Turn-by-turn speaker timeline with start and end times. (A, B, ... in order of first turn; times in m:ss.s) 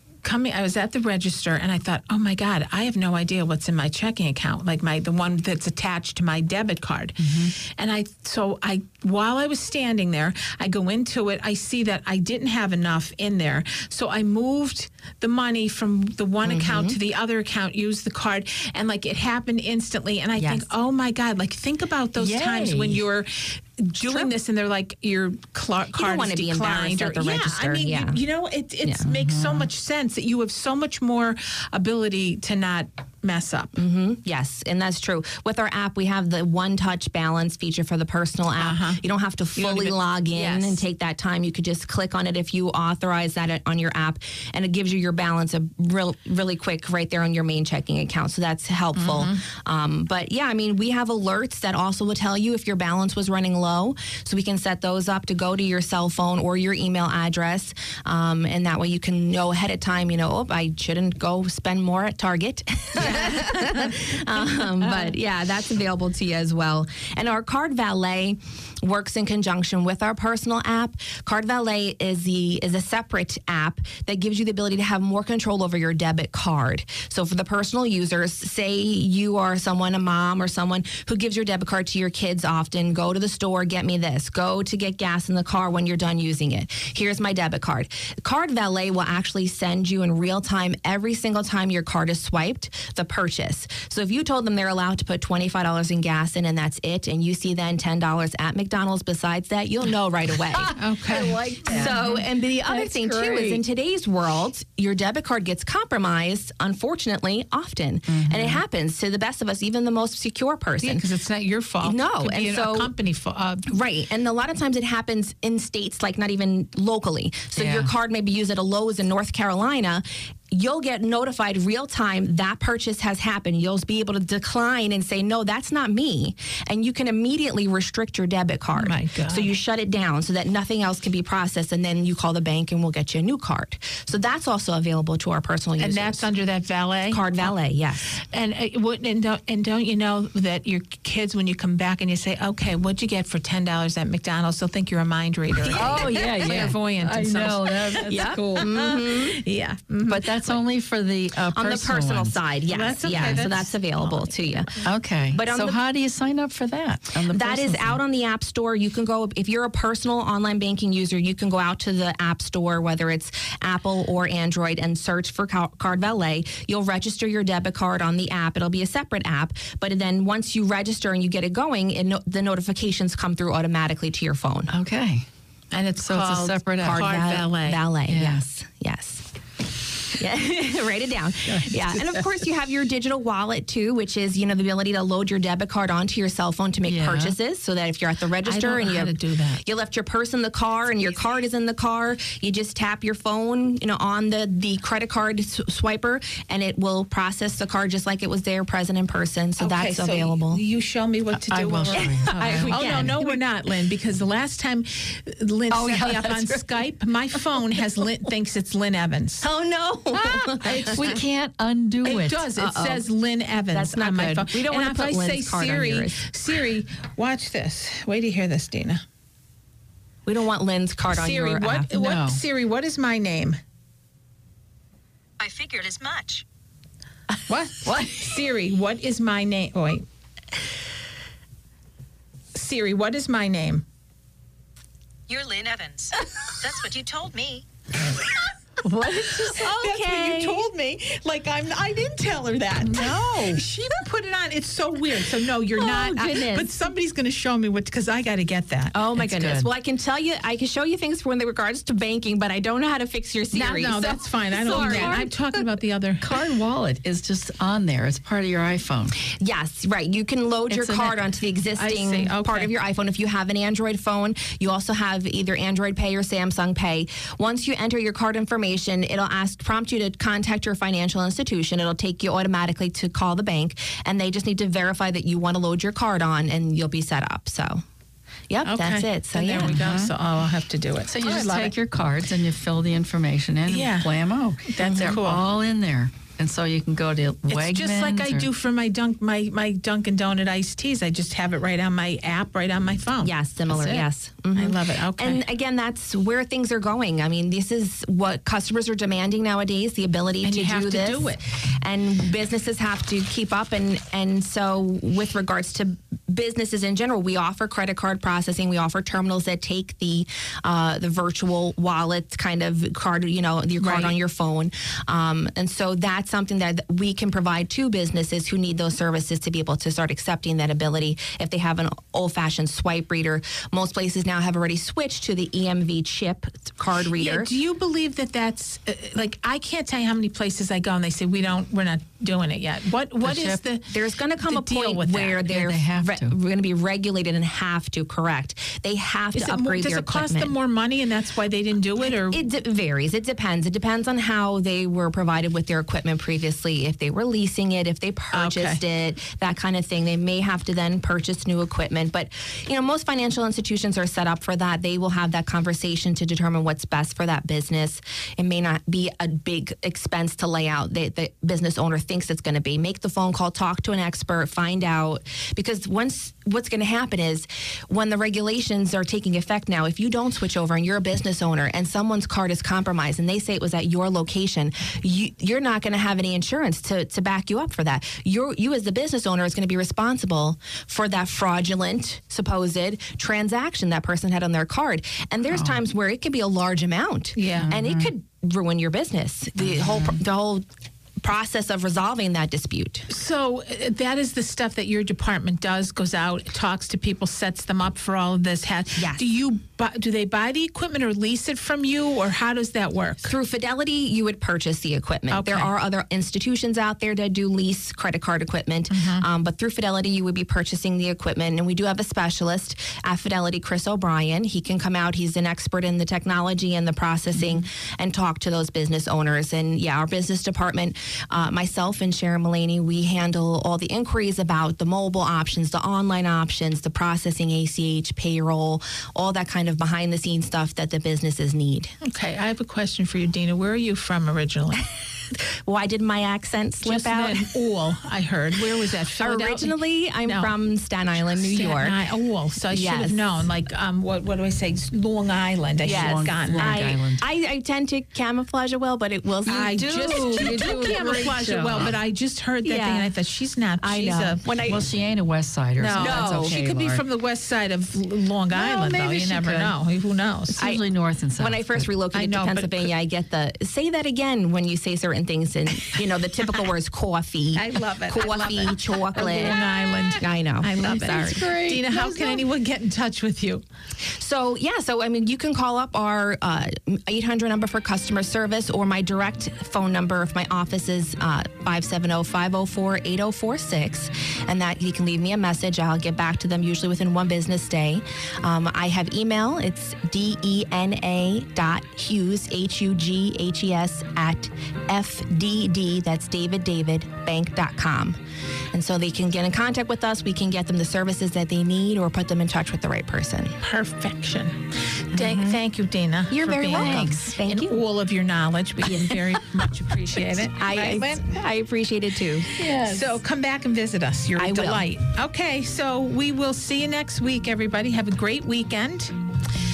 0:00.2-0:33.7 A
0:07.2-0:07.5 B
0:16.4-0:17.0 C
0:20.4-0:20.6 C
0:22.2-0:23.0 B
0:25.9-0:28.2 C
0:29.2-0:29.7 B
0:33.7-1:51.0 C
0:38.6-0:39.0 A
0:39.6-0:40.8 A
0:48.9-0:49.4 A
1:03.0-1:03.8 A
1:40.5-1:43.6 B
1:40.8-1:41.9 A
1:48.1-1:48.6 B
1:50.8-1:53.7 A
1:51.8-1:52.9 C
1:53.7-2:16.3 C
1:57.5-1:57.9 B
2:08.7-2:09.5 A
2:15.8-2:17.5 A
2:17.1-2:18.2 C
2:18.2-2:30.3 A
2:25.6-2:26.7 C
2:25.7-2:29.0 B
2:28.0-2:29.4 C
2:30.0-2:32.4 B
2:31.5-2:34.7 C
2:32.7-2:34.9 A
2:33.1-2:33.6 B
2:34.8-2:38.0 B
2:35.3-2:35.8 C
2:37.3-2:54.7 C
2:54.7-2:55.2 B
2:55.7-2:57.8 A
2:56.0-2:57.2 B
2:56.8-2:59.2 C
2:58.1-2:58.4 B
3:00.1-3:20.6 C
3:01.5-3:02.0 B
3:06.8-3:07.4 B
3:08.4-3:09.6 A
3:19.6-3:29.5 A
3:21.3-3:23.3 B
3:21.9-3:23.3 C
3:25.7-3:26.7 B
3:29.4-3:31.1 C
3:30.1-3:32.5 B
3:30.6-3:31.2 A
3:32.0-3:39.0 A
3:32.6-3:33.0 C
3:33.7-3:36.2 C
3:40.2-3:41.9 C
3:41.1-3:43.6 A
3:41.9-3:42.4 B
3:45.4-3:46.4 D
3:47.5-3:50.0 A
3:52.5-3:53.8 A
3:55.3-3:58.4 D
3:58.8-3:59.7 B
3:58.9-4:00.7 C
3:59.5-4:08.9 A
4:02.9-4:03.6 C
4:03.0-4:03.4 B
4:05.7-4:06.7 C
4:08.9-4:15.3 C
4:09.2-4:09.7 B
4:13.5-4:16.3 A
4:14.6-4:15.3 B
4:16.2-4:19.1 B
4:19.4-4:37.8 C
4:20.7-4:21.2 B
4:21.8-4:22.7 A
4:38.5-4:39.8 C
4:38.6-4:41.7 A
4:39.6-4:40.1 B
4:41.1-4:48.5 B
4:43.7-4:44.1 A
4:44.7-4:45.4 A
4:44.9-4:45.2 C
4:47.5-4:53.3 A
4:53.2-5:27.5 C
4:53.7-4:54.1 B
4:54.5-4:55.4 A
5:00.4-5:01.4 A
5:13.8-5:14.2 A
5:27.1-5:35.4 A
5:33.2-5:33.6 B
5:33.9-5:40.5 C
5:35.4-5:36.4 B
5:39.3-5:42.4 A
5:42.3-6:30.6 C
5:48.3-5:48.8 A
6:25.5-6:25.8 B
6:27.3-6:27.7 A
6:27.6-6:28.1 B
6:29.6-6:30.2 B
6:31.2-6:33.1 C
6:33.1-6:43.3 A
6:39.0-6:39.2 C
6:43.2-7:11.9 C
6:45.3-6:45.7 A
6:48.9-6:49.2 A
7:12.0-7:14.8 A
7:15.6-7:17.4 C
7:16.8-7:20.5 A
7:19.1-7:22.0 C
7:21.1-7:26.8 A
7:22.7-7:23.3 C
7:25.8-7:31.0 C
7:25.8-7:27.2 B
7:29.4-7:31.9 B
7:29.5-7:34.4 A
7:32.6-7:33.1 C
7:33.8-7:34.8 C
7:34.6-7:37.0 B
7:35.8-7:40.6 A
7:36.0-7:36.5 C
7:38.5-7:39.7 B
7:40.6-7:41.9 B
7:40.6-7:40.8 C
7:41.4-7:49.6 C
7:42.1-7:42.9 A
7:47.5-7:53.6 A
7:50.2-7:51.4 C
7:50.8-7:52.4 B
7:54.1-8:18.2 C
8:18.7-8:23.5 C
8:23.6-8:31.3 A
8:25.1-8:25.6 B
8:26.3-8:27.8 C
8:26.7-8:27.4 B
8:30.2-8:33.1 C
8:32.6-8:39.1 A
8:34.4-8:34.9 C